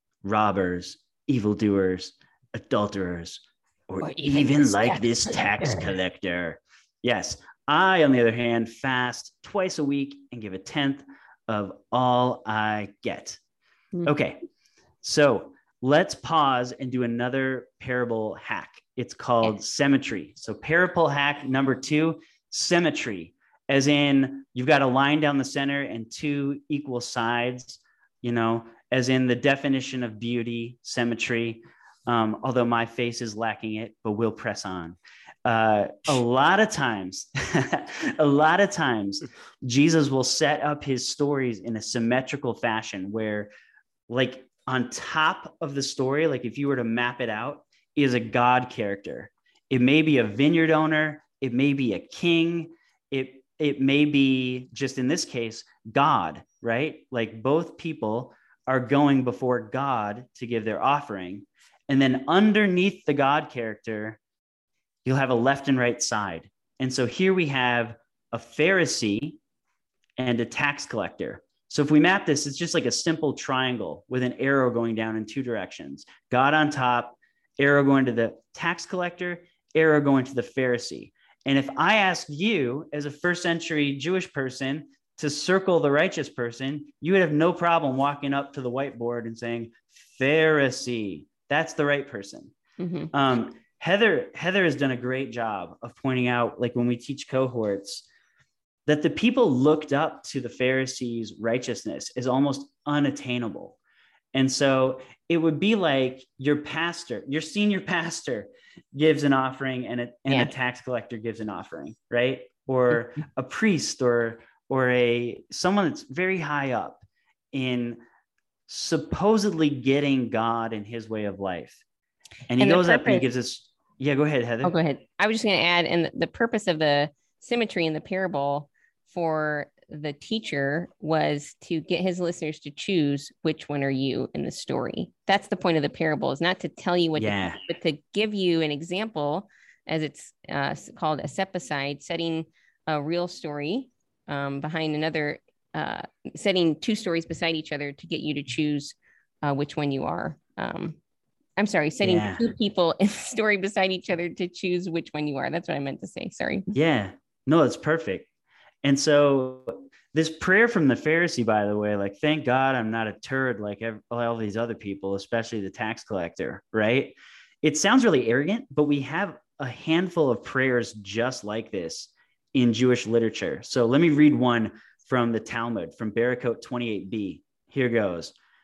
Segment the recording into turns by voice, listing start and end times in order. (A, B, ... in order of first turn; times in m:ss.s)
0:00.2-0:13.4 A
0:04.0-0:05.7 B
0:14.0-0:14.4 A
0:15.0-0:43.5 A
0:44.1-1:04.2 A
1:05.0-1:09.4 A
1:10.2-1:32.5 A
1:32.8-1:33.1 B
1:33.1-1:38.0 A
1:38.9-1:43.8 A
1:44.3-1:58.0 A
1:58.7-2:01.8 A
2:02.5-2:04.7 A
2:02.6-2:03.2 B
2:04.6-2:31.0 B
2:17.2-2:17.6 A
2:31.6-2:36.7 B
2:32.0-2:32.4 A
2:36.7-2:38.3 A
2:38.8-2:58.3 A